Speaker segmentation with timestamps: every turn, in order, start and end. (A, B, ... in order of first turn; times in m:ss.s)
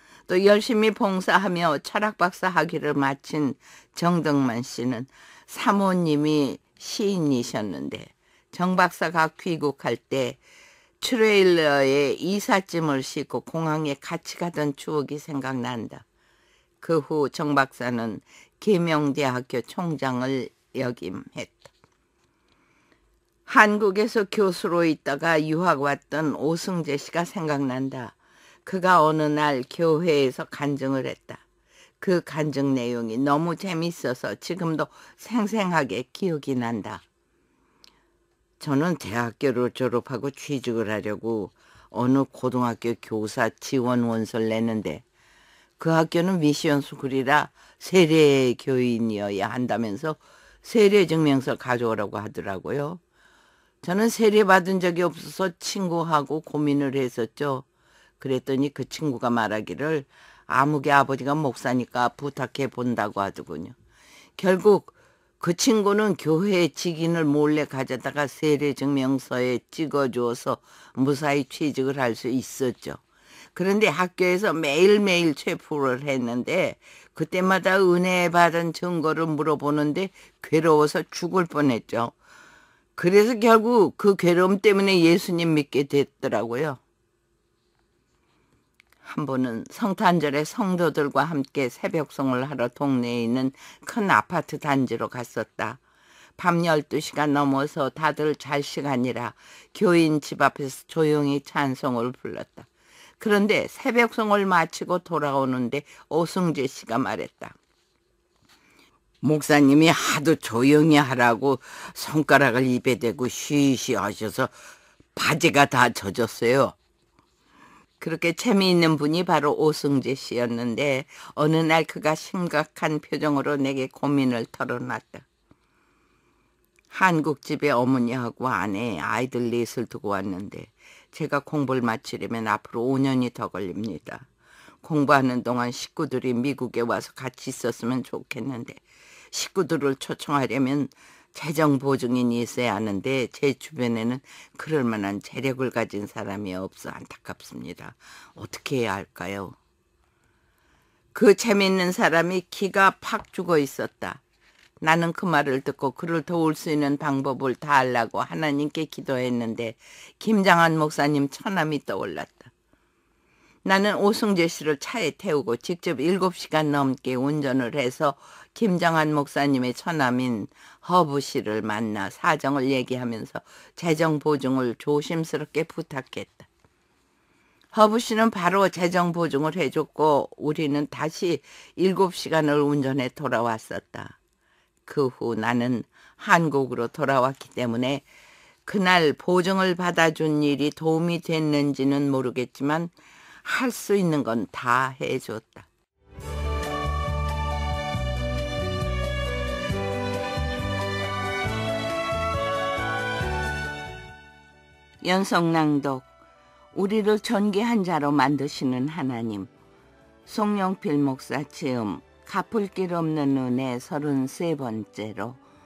0:00.3-0:10.4 A
0:11.0-0:16.0 A
0:16.8-0:21.7 A
0:23.5-0:31.4 A
0:32.0-0:37.0 A
0:38.6-0:45.0 A
0:45.8-0:53.0 A
0:53.8-0:57.6 A
0:58.2-1:03.7 A
1:04.4-1:13.0 A
1:13.5-1:22.1 A
1:23.0-1:26.8 A
1:29.0-1:35.8 A
1:36.4-1:42.7 A
1:43.2-1:47.6 A
1:49.2-1:54.5 A
1:55.1-1:56.8 A
1:58.0-2:05.2 A
2:06.9-2:14.2 A
2:14.8-2:29.6 A
2:31.1-2:34.2 A
2:34.8-2:42.5 A
2:43.6-2:56.5 A
2:57.7-3:04.2 A
3:04.8-3:08.0 A
3:08.6-3:12.9 A
3:13.4-3:15.7 A
3:25.0-3:26.1 A
3:26.7-3:29.5 A
3:30.2-3:35.4 A